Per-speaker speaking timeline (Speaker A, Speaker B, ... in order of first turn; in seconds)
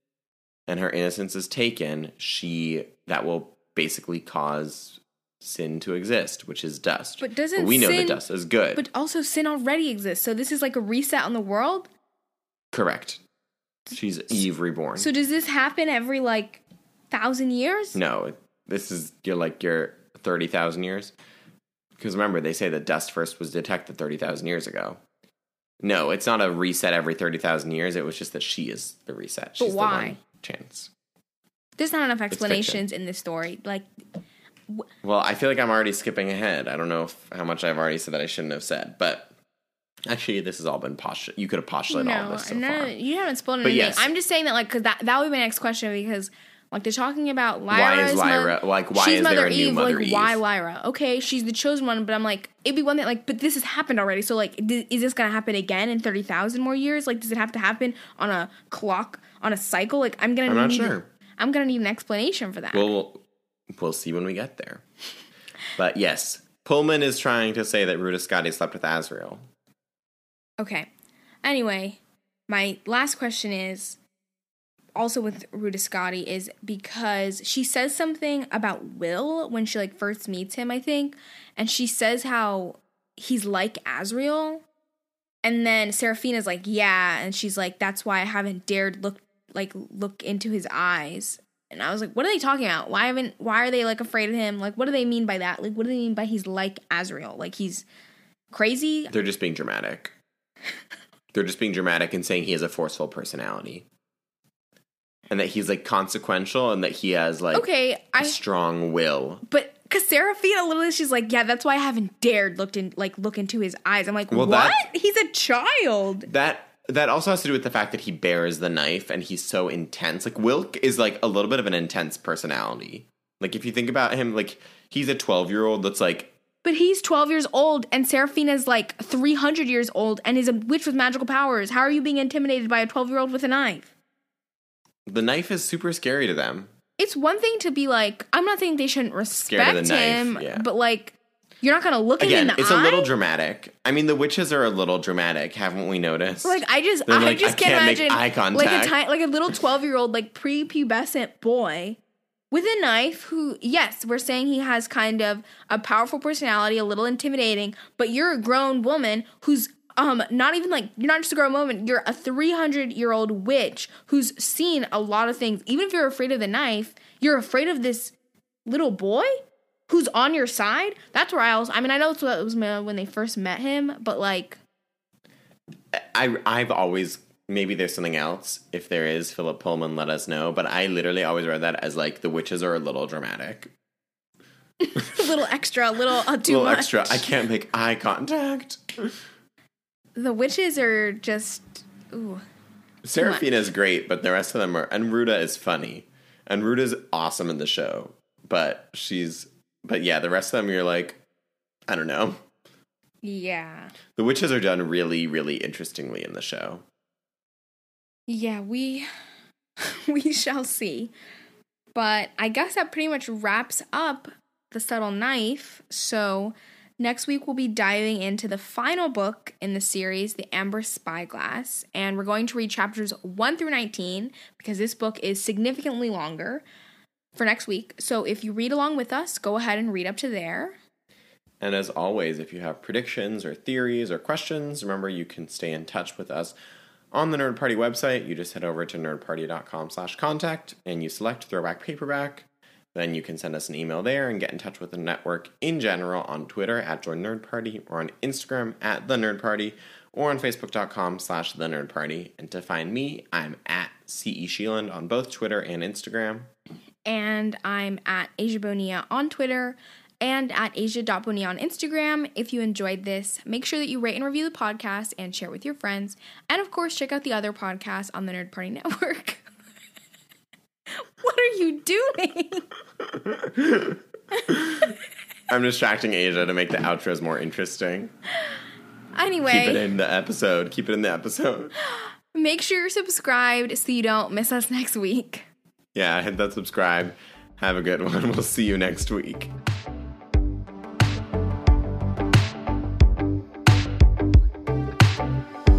Speaker A: 0.7-8.8, 12.7-13.2, 13.9-15.1, 17.9-21.1, 22.0-25.0, 25.8-30.9, 32.3-32.8, 35.0-39.3, 40.1-43.0, 43.6-44.1, 47.7-50.4, 60.5-61.1, 62.7-64.8, 65.8-69.4, 99.1-100.1, 101.3-103.9, 105.3-107.7, 108.2-109.4, 114.3-114.8, 116.3-126.3, 135.1-136.7, 139.4-140.6, 142.2-148.9, 175.9-183.7, 186.4-189.2, 193.0-201.2, 201.9-202.4, 204.2-206.8, 231.6-236.5, 237.1-256.5, 273.1-274.9, 275.5-278.1, 279.4-281.7, 285.9-289.5
Speaker B: 7.2-8.2, 8.7-11.9, 14.9-18.0, 29.6-30.2, 31.8-33.9, 41.9-62.9, 70.6-70.9, 71.4-74.0, 75.0-84.6, 85.4-97.9, 98.5-99.1, 107.5-108.4, 109.5-116.3, 126.6-133.9, 137.0-143.1, 146.4-152.0, 152.5-168.1, 168.7-169.3, 169.9-174.6, 184.8-187.3, 190.2-192.4, 203.2-203.9, 208.3-209.1, 209.8-211.1, 211.9-226.6, 227.3-230.8, 257.1-269.4, 270.9-272.7, 279.1-279.8, 281.8-285.5